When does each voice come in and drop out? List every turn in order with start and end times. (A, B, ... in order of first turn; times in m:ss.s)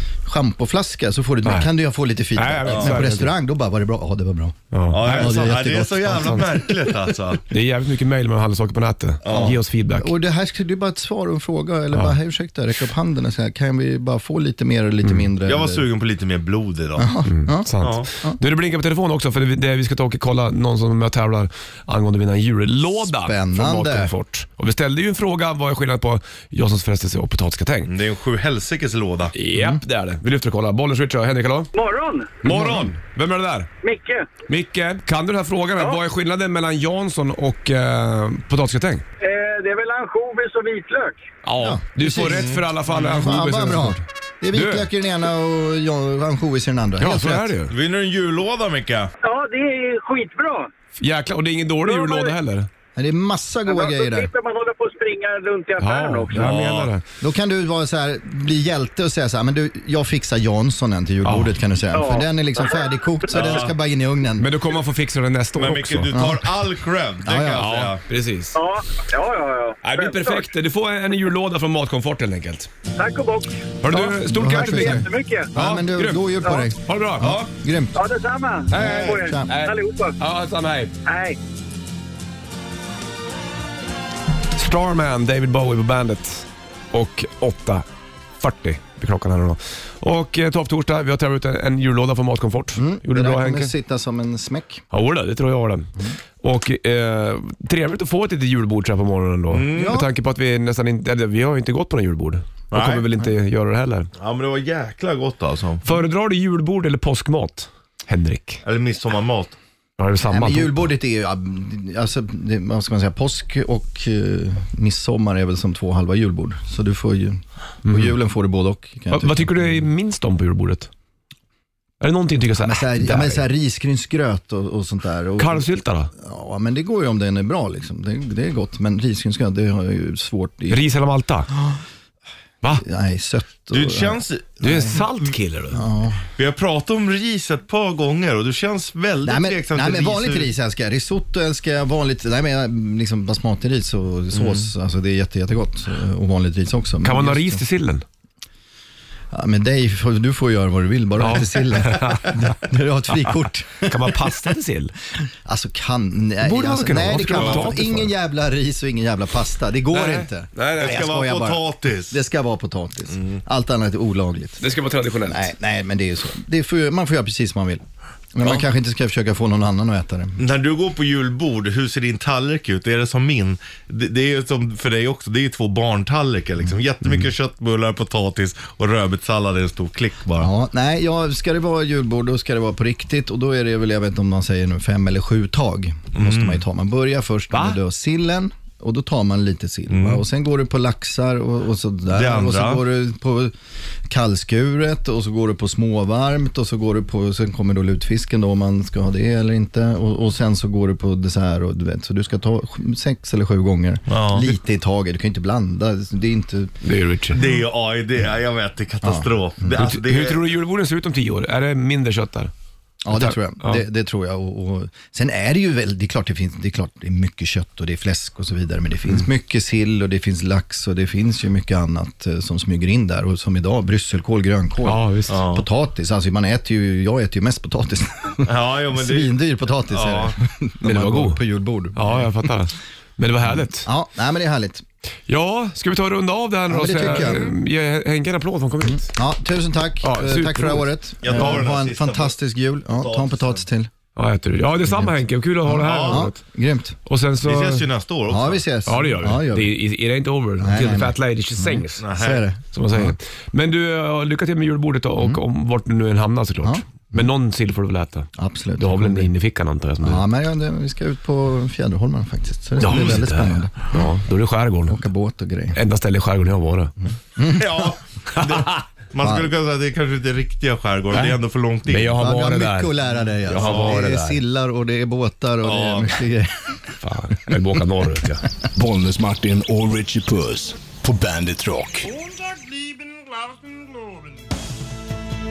0:00.2-0:06.8 A
0:01.4-0:01.7 B
0:02.4-0:03.4 B
0:02.7-0:02.9 C
0:04.7-0:05.5 B
0:04.9-0:07.4 C
0:06.1-0:06.4 B
0:07.5-0:10.1 B
0:09.2-0:09.6 C
0:09.3-0:15.9 A
0:15.5-0:17.1 C
0:17.0-0:18.4 A
0:17.2-0:27.9 B
0:17.8-0:18.1 C
0:23.0-0:24.1 A
0:27.8-0:29.3 C
0:29.3-0:31.7 B
0:29.6-0:29.8 A
0:31.8-0:32.3 D
0:32.4-0:33.7 B
0:32.5-0:32.9 A
0:33.8-0:34.3 D
0:34.5-0:39.0 B
0:39.2-0:41.2 D
0:41.4-0:44.9 B
0:41.6-0:47.5 A
0:42.2-0:43.2 C
0:47.0-0:47.7 B
0:47.7-0:49.1 C
0:49.2-0:50.7 D
0:51.0-0:52.7 B
0:53.0-0:54.3 A
0:53.7-0:56.4 D
0:55.8-0:57.0 B
0:56.3-0:56.9 C
0:57.2-1:04.5 A
1:01.2-1:01.6 B
1:02.0-1:02.2 D
1:03.3-1:03.7 C
1:04.4-1:06.1 B
1:05.6-1:08.0 C
1:06.1-1:06.5 A
1:07.2-1:07.8 A
1:07.6-1:08.6 B
1:08.6-1:10.4 D
1:09.8-1:12.7 B
1:13.0-1:13.5 D
1:13.8-1:17.5 B
1:13.9-1:18.0 A
1:15.0-1:15.5 D
1:18.0-1:20.1 D
1:18.7-1:21.0 B
1:18.7-1:19.5 A
1:21.1-1:21.4 D
1:24.6-1:27.8 B
1:28.4-1:33.7 B
1:32.8-1:34.8 A
1:34.9-1:44.1 B
1:39.5-1:40.0 C
1:39.7-1:40.1 A
1:42.7-1:43.1 C
1:44.2-1:45.8 C
1:45.8-1:48.6 B
1:48.6-1:49.6 C
1:50.0-1:50.9 B
1:50.3-1:59.8 A
1:57.8-1:58.2 B
1:59.1-2:00.9 B
2:02.0-2:03.5 B
2:02.6-2:10.8 A
2:05.4-2:06.1 B
2:10.7-2:11.5 B
2:11.5-2:11.8 A
2:12.8-2:14.8 A
2:13.7-2:15.0 C
2:14.6-2:15.9 B
2:15.7-2:16.2 A
2:16.4-2:20.5 C
2:19.2-2:27.6 A
2:24.3-2:24.7 C
2:27.0-2:28.0 B
2:29.3-2:34.5 A
2:31.2-2:32.3 B
2:33.8-2:35.0 B
2:35.3-2:44.6 A
2:36.4-2:38.1 B
2:37.4-2:37.7 C
2:39.9-2:41.1 B
2:40.8-2:42.2 C
2:44.6-2:45.5 B
2:45.3-2:47.8 A
2:48.3-2:50.4 A
2:50.4-3:00.5 C
3:00.4-3:13.5 A
3:06.2-3:06.6 C
3:07.5-3:07.8 B
3:09.9-3:10.2 C
3:12.1-3:12.8 C
3:14.1-3:26.7 A
3:24.1-3:24.5 C
3:26.8-3:27.4 B
3:27.3-3:30.5 C
3:29.0-3:29.3 A
3:29.7-3:32.5 B
3:33.0-3:52.3 A
3:33.1-3:33.8 B
3:44.8-3:45.4 B
3:45.3-3:45.6 C
3:48.5-3:49.4 C
3:49.9-3:50.4 C
3:50.8-3:51.4 B
3:51.9-3:53.9 B
3:53.6-3:54.8 A
3:55.3-3:59.1 B
3:56.7-3:57.6 A
3:58.8-4:03.9 A
4:00.0-4:01.6 B
4:01.2-4:02.4 C
4:03.0-4:03.6 C
4:04.2-4:06.4 B
4:05.7-4:07.0 A
4:05.8-4:06.3 C
4:07.1-4:07.9 B
4:07.4-4:08.6 C
4:08.3-4:09.8 A
4:08.9-4:12.0 B
4:10.6-4:13.2 A
4:12.0-4:12.4 C
4:12.7-4:20.3 B
4:16.6-4:17.3 A
4:18.4-4:19.3 A
4:20.0-4:24.1 A
4:22.8-4:25.0 B
4:24.9-4:25.8 A
4:25.7-4:26.9 B
4:27.4-4:28.0 A
4:27.4-4:32.2 C
4:28.3-4:28.8 B
4:29.2-4:29.5 A
4:31.1-4:34.4 B
4:32.2-4:36.8 A
4:33.6-4:33.9 C
4:35.6-4:36.2 C
4:37.0-4:38.5 B
4:38.8-4:42.2 E